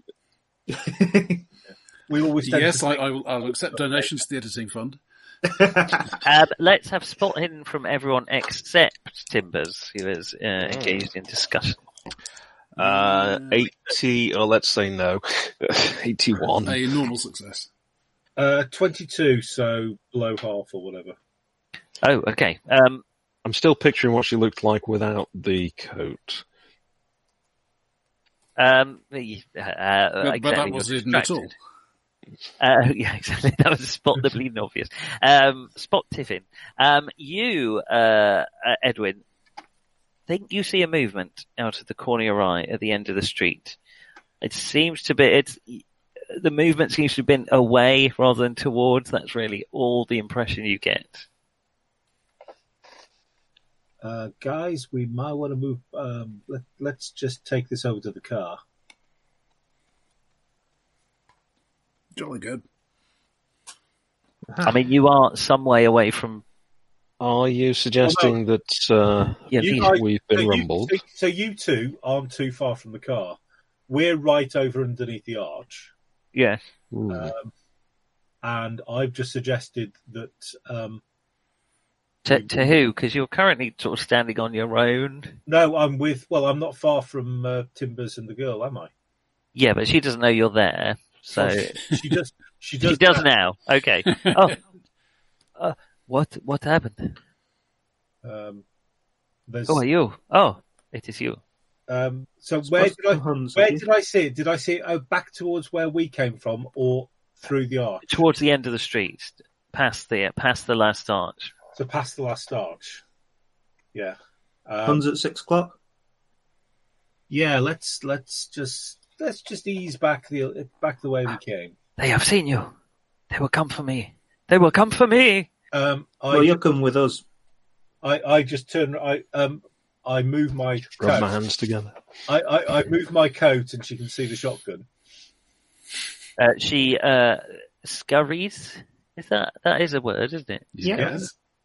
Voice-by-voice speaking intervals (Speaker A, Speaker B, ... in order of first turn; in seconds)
Speaker A: 0.7-1.5, 5.5-6.0, 64.5-64.7, 102.6-103.8, 114.8-115.8, 126.3-127.2, 140.8-141.3
Speaker B: 2.1-2.9, 18.4-21.1, 54.0-58.6, 68.0-68.3, 69.5-75.9, 77.1-77.5, 78.4-81.0, 82.2-82.8, 85.5-88.9, 91.3-93.3, 98.2-98.6, 99.5-99.8, 101.9-108.0, 111.7-113.0, 113.9-115.0, 117.3-121.8, 125.7-126.6, 128.0-131.3, 132.3-134.9, 140.9-141.2
Speaker C: 2.4-5.0, 12.8-13.6, 16.6-17.7, 30.2-31.5, 62.1-62.6, 94.1-94.4, 140.7-141.3
Speaker D: 6.2-11.8, 22.0-23.0, 28.6-31.5, 32.6-39.2, 40.3-43.8, 44.4-51.2, 64.6-66.4, 69.5-70.0, 76.3-76.6, 82.2-85.3, 89.5-91.8, 92.8-94.6, 95.6-97.2, 99.7-101.4, 108.0-111.5, 122.0-122.7, 123.3-125.5, 136.4-140.7
Speaker E: 10.6-11.1, 12.8-16.8, 23.4-26.4, 67.2-71.0, 76.9-77.3, 131.0-132.0